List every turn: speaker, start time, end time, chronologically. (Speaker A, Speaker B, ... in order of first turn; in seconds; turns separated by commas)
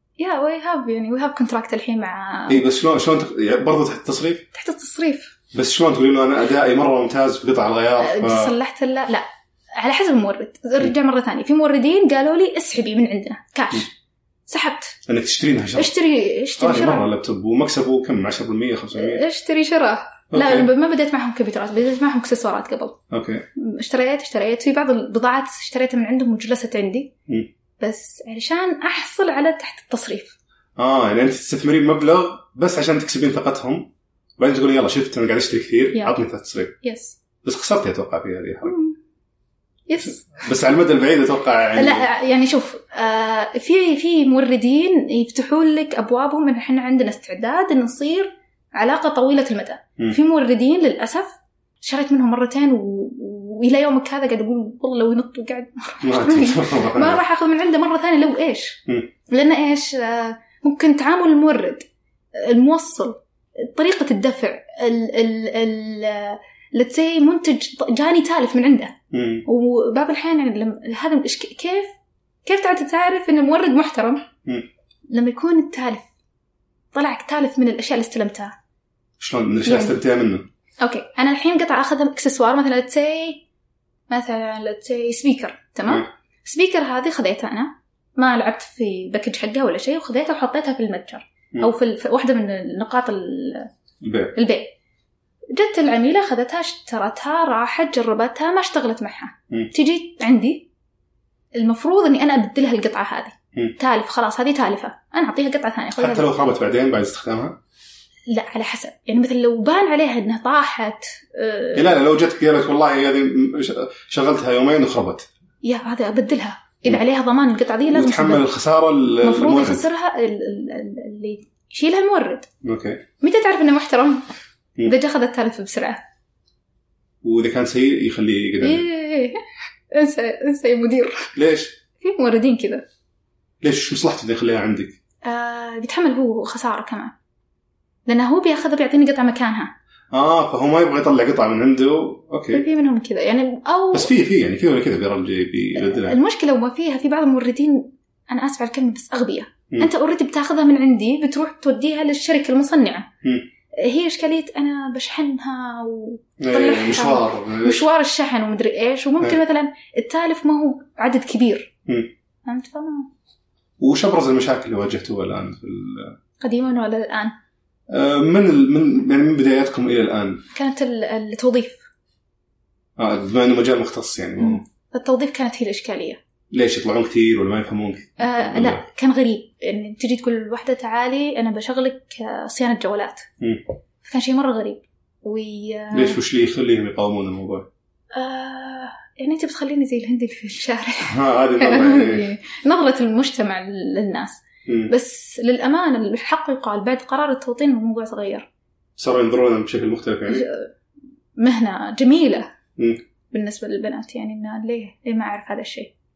Speaker A: 0.2-2.6, Speaker B: 2.5-4.5, Speaker A: 4.5-5.3, Speaker B: 5.5-8.5, Speaker A: 8.0-13.9, Speaker A: 14.5-14.9, Speaker B: 15.1-15.9, Speaker A: 15.8-17.1, Speaker B: 16.6-19.2, Speaker A: 18.9-23.0, Speaker B: 20.3-20.7, Speaker B: 23.1-23.4, Speaker A: 23.6-27.1, Speaker A: 27.8-30.3, Speaker B: 30.8-36.8, Speaker A: 36.8-37.2, Speaker B: 37.4-38.8, Speaker A: 38.6-39.0, Speaker A: 39.9-40.4, Speaker B: 40.0-42.1, Speaker A: 41.7-71.9, Speaker B: 56.0-57.2, Speaker B: 69.1-69.5, Speaker A: 72.4-74.3, Speaker A: 75.1-76.0, Speaker A: 76.9-78.5, Speaker B: 79.2-80.5, Speaker A: 79.6-80.0, Speaker A: 80.8-83.4, Speaker A: 84.1-93.7, Speaker B: 94.0-94.3, Speaker A: 94.3-94.7, Speaker A: 95.5-100.7, Speaker A: 101.5-106.3, Speaker B: 106.0-107.6, Speaker A: 108.3-111.9, Speaker B: 111.7-115.3, Speaker A: 115.6-118.5, Speaker B: 117.9-119.8, Speaker A: 119.2-122.5, Speaker B: 122.6-123.0, Speaker A: 123.2-124.2, Speaker A: 124.8-126.0, Speaker B: 127.2-128.8, Speaker A: 128.6-131.3, Speaker B: 131.3-131.8, Speaker A: 132.0-132.8, Speaker B: 133.6-135.0, Speaker A: 135.2-137.1, Speaker A: 138.1-139.7, Speaker B: 140.1-142.6, Speaker A: 142.5-144.1, Speaker B: 143.9-146.2, Speaker A: 145.8-153.1, Speaker A: 153.7-161.7, Speaker B: 156.4-157.8, Speaker A: 162.4-163.1, Speaker B: 163.8-166.2, Speaker A: 166.4-167.3, Speaker B: 167.9-170.4, Speaker A: 170.5-171.8, Speaker B: 173.0-174.6, Speaker A: 174.4-176.2, Speaker B: 176.5-178.8, Speaker A: 178.2-183.3, Speaker A: 184.0-186.2, Speaker B: 185.9-187.7, Speaker A: 188.1-198.5, Speaker B: 191.0-192.3, Speaker B: 194.7-194.9, Speaker B: 199.0-200.5, Speaker A: 200.3-200.7, Speaker A: 201.3-202.5, Speaker A: 203.3-205.9